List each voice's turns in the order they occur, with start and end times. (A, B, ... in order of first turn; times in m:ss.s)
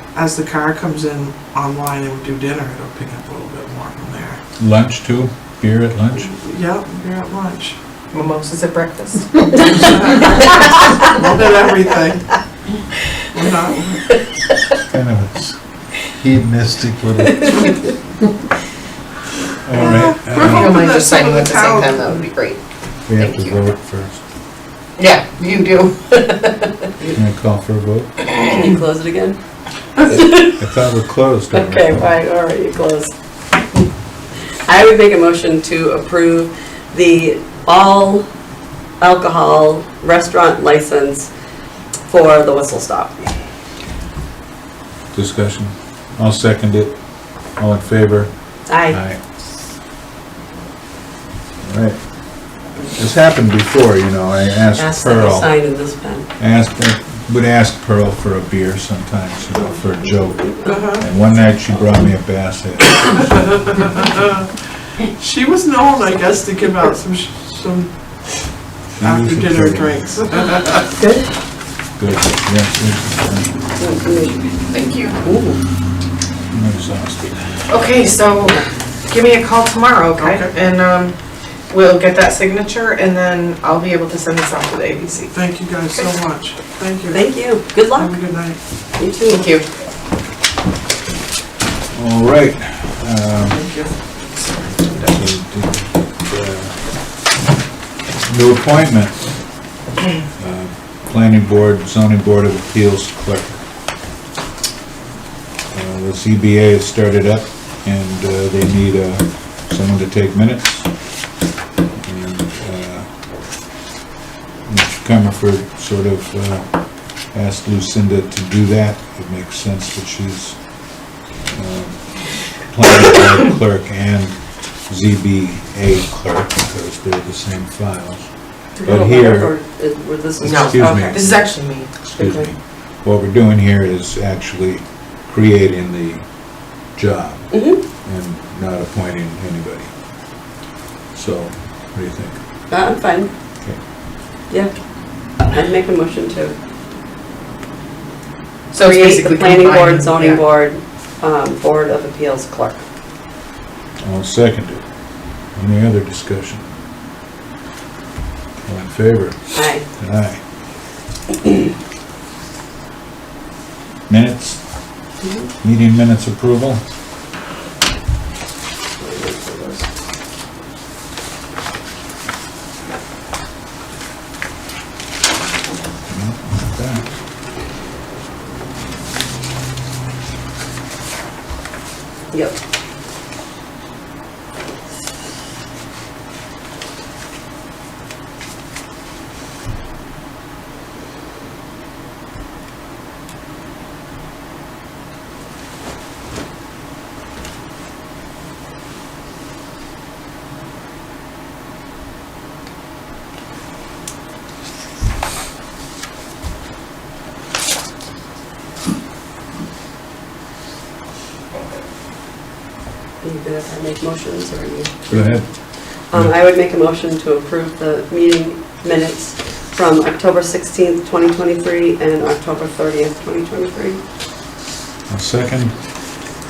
0:00.1-0:04.4 A
0:04.6-0:06.3 B
0:06.2-0:07.8 A
0:08.1-0:09.9 C
0:09.7-0:12.4 A
0:13.3-0:14.2 A
0:14.8-0:17.8 B
0:19.6-0:20.8 B
0:19.8-0:22.3 A
0:20.4-0:22.6 C
0:23.1-0:24.2 B
0:23.2-0:23.6 C
0:25.0-0:26.9 C
0:27.1-0:28.1 B
0:28.3-0:29.4 D
0:30.0-0:30.6 D
0:30.4-0:32.0 B
0:31.5-0:33.1 D
0:34.7-0:38.2 D
0:39.0-0:41.3 D
0:42.1-0:43.3 D
0:45.1-0:49.2 B
0:48.7-0:49.0 D
0:51.6-0:55.6 B
0:54.8-0:56.3 D
0:56.4-1:03.6 B
0:59.8-1:01.7 D
1:00.6-1:01.1 A
1:03.2-1:07.9 A
1:09.0-1:10.0 B
1:09.0-1:11.0 A
1:11.0-1:11.3 D
1:12.0-1:13.5 B
1:13.8-1:14.6 D
1:14.7-1:15.2 C
1:15.2-1:15.6 D
1:16.5-1:17.4 B
1:17.7-1:21.2 C
1:20.2-1:20.5 A
1:21.7-1:25.3 C
1:25.3-1:27.3 A
1:27.1-1:28.2 D
1:27.9-1:28.6 A
1:29.0-1:29.4 D
1:29.3-1:29.7 C
1:31.9-1:33.6 B
1:33.5-1:33.9 A
1:35.1-1:36.8 B
1:38.3-1:39.3 B
1:40.4-1:43.6 B
1:45.7-1:50.9 B
1:52.0-1:53.1 B
1:54.6-1:56.7 B
1:57.2-2:00.6 B
2:01.4-2:04.4 B
2:04.9-2:08.3 B
2:08.8-2:11.2 D
2:08.8-2:09.5 B
2:10.4-2:16.3 B
2:10.4-2:12.2 C
2:12.2-2:12.5 D
2:16.8-2:19.9 B
2:17.5-2:17.8 D
2:21.1-2:22.4 B
2:22.7-2:23.3 D
2:25.4-2:26.5 D
2:28.7-2:30.4 C
2:28.8-2:32.8 D
2:34.0-2:34.9 B
2:35.5-2:36.7 B
2:38.6-2:40.4 B
2:39.6-2:39.8 D
2:44.1-2:44.7 B
2:45.2-2:45.5 D
2:45.6-2:46.8 B
2:49.0-2:49.9 D
2:56.1-2:57.1 B
3:02.3-3:02.6 D
3:33.2-3:35.4 D
3:35.1-3:35.5 B
3:36.1-3:44.0 D
3:45.1-3:45.8 B